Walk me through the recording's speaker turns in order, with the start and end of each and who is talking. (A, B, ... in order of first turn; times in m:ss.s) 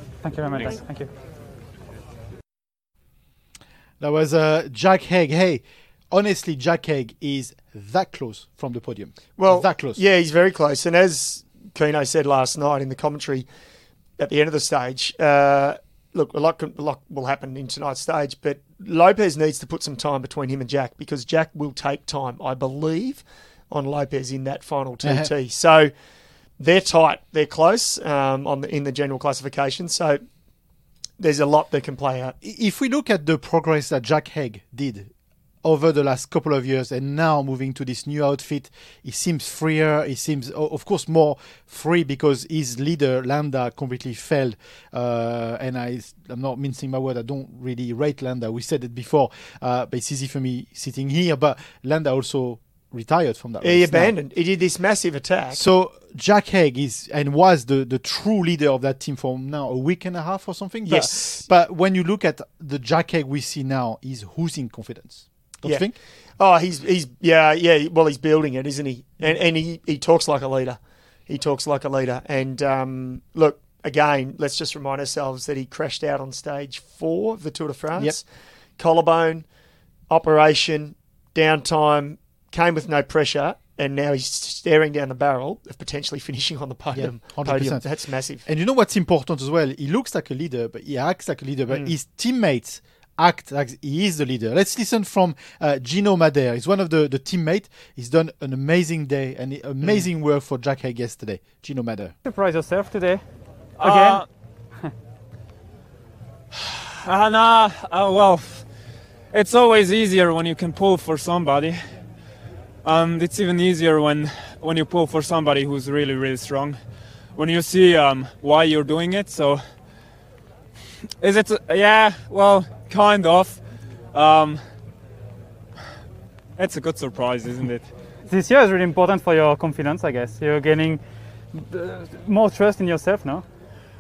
0:00.2-0:01.1 A
0:04.0-0:10.0 B
0:09.4-0:13.5 C
0:14.2-0:25.9 C
0:25.0-0:25.3 B
0:26.6-0:30.2 C
0:31.2-0:32.3 C
0:32.4-0:35.1 B
0:35.6-0:54.1 B
0:53.6-0:55.6 C
0:55.5-1:06.0 B
1:00.8-1:01.5 C
1:05.6-1:19.5 C
1:20.1-1:28.4 C
1:26.9-1:42.1 B
1:42.2-1:43.2 A
1:43.8-1:44.2 D
1:43.8-1:44.2 A
1:46.6-1:48.7 D
1:49.3-1:51.8 D
1:52.8-1:56.8 D
1:57.3-1:59.6 D
2:01.2-2:04.6 D
2:06.6-2:07.9 D
2:08.3-2:11.0 A
2:11.5-2:13.4 A